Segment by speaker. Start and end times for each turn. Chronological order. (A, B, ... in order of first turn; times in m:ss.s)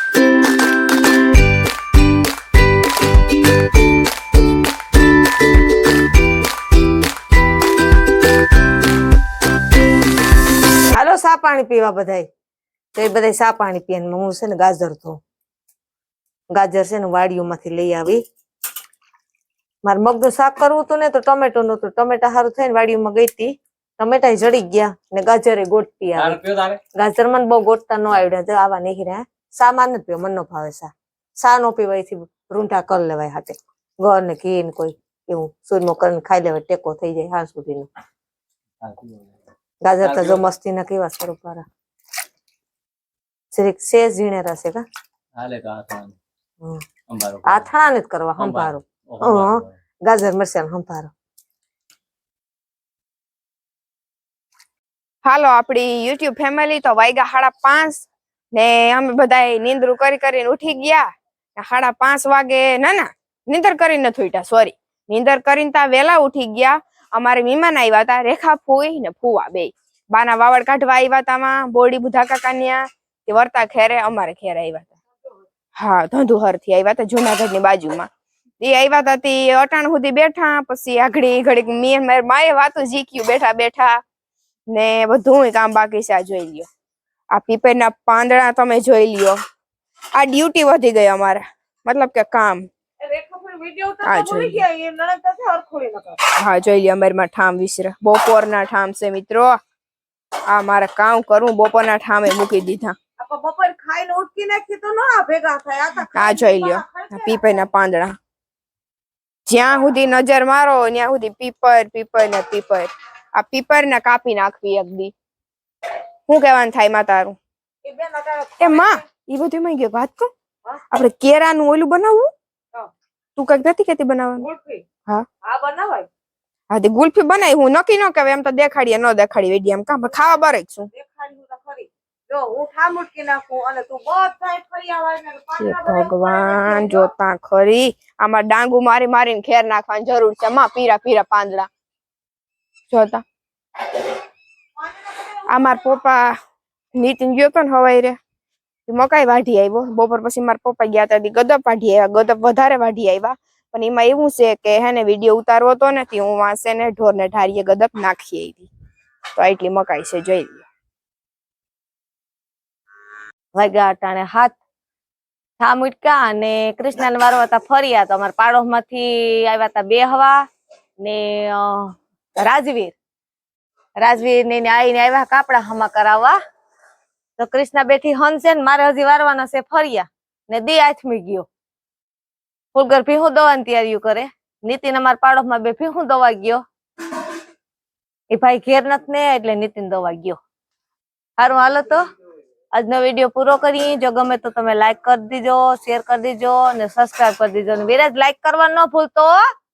0:10.9-0:12.3 A
0:12.9-0:15.2 A
0:16.5-0:18.2 A
0:19.8-0:26.4 A
0:26.2-0:26.8 B
0:26.9-0:37.9 A
0:38.8-0:39.4 B
0:39.8-0:41.6 A
0:40.0-0:40.5 B
0:43.5-0:44.8 A
0:45.3-0:46.2 B
0:47.1-0:47.7 B
0:47.4-0:51.1 A
0:48.4-0:49.7 B
0:55.2-1:15.0 C
1:15.8-1:18.1 C
1:18.6-1:24.0 C
1:24.7-1:26.7 C
1:27.3-1:29.4 C
1:30.1-1:32.7 C
1:33.0-1:36.2 A
1:34.0-1:34.7 C
1:36.4-1:39.6 C
1:40.5-1:43.0 C
1:43.2-1:47.4 A
1:46.1-1:48.2 C
1:49.5-1:55.1 C
1:56.3-1:57.4 C
1:57.8-1:59.0 A
1:58.6-2:00.3 C
2:00.9-2:02.3 C
2:03.4-2:04.5 C
2:04.4-2:04.8 A
2:05.4-2:06.1 A
2:06.7-2:10.9 C
2:10.0-2:10.4 A
2:10.9-2:17.1 A
2:15.6-2:21.7 C
2:22.9-2:23.2 C
2:25.5-2:26.3 C
2:26.9-2:28.2 C
2:28.9-2:38.7 C
2:39.4-2:40.6 C
2:43.5-2:44.6 A
2:45.6-2:50.5 A
2:51.0-2:53.0 A
2:54.0-2:56.4 A
2:57.4-3:01.5 A
3:02.7-3:06.6 A
3:08.3-3:10.4 A
3:11.4-3:12.0 A
3:12.7-3:19.4 A